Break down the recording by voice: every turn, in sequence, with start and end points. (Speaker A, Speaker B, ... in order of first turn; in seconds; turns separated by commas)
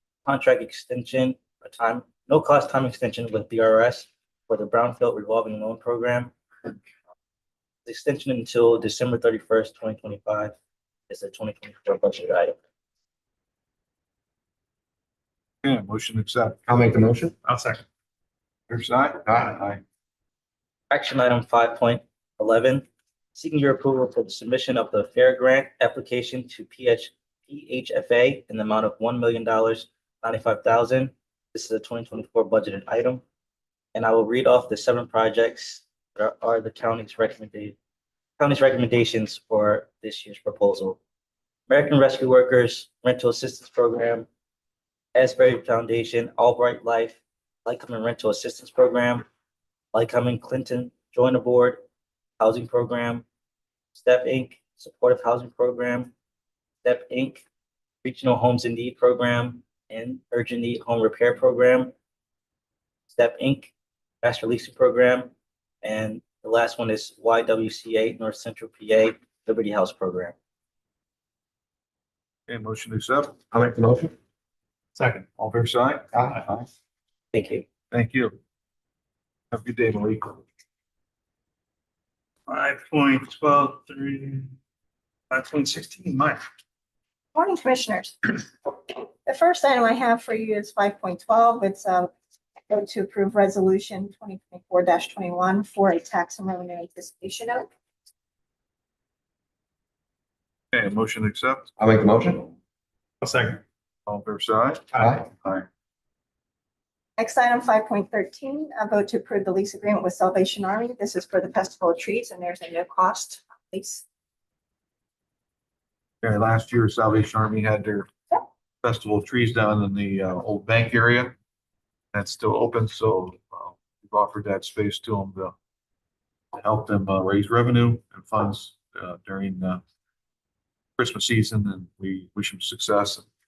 Speaker A: 0.3-6.7, Speaker A: 7.9-10.6, Speaker A: 11.1-12.6, Speaker B: 15.6-16.6, Speaker C: 16.7-17.4, Speaker D: 17.4-17.8, Speaker B: 18.7-19.3, Speaker C: 19.3-19.8, Speaker A: 20.9-33.2, Speaker A: 33.9-37.8, Speaker A: 38.4-41.0, Speaker A: 41.7-44.3, Speaker A: 45.1-49.2, Speaker A: 49.9-51.8, Speaker A: 52.4-53.2, Speaker A: 53.9-56.1, Speaker A: 56.8-57.4, Speaker A: 58.0-61.9, Speaker A: 63.1-70.3, Speaker B: 72.5-73.4, Speaker C: 73.5-74.1, Speaker D: 75.0-75.3, Speaker B: 75.4-76.1, Speaker A: 77.3-77.7, Speaker B: 77.9-78.4, Speaker B: 79.5-80.4, Speaker D: 82.5-84.5, Speaker D: 85.3-86.4, Speaker E: 87.3-92.1, Speaker E: 92.7-97.7, Speaker B: 100.7-101.7, Speaker C: 101.8-102.5, Speaker D: 103.2-103.6, Speaker B: 104.1-104.9, Speaker E: 107.2-114.0, Speaker B: 116.2-118.1, Speaker B: 118.8-121.3, Speaker B: 122.1-125.5, Speaker B: 126.5-129.8, Speaker B: 131.0-133.3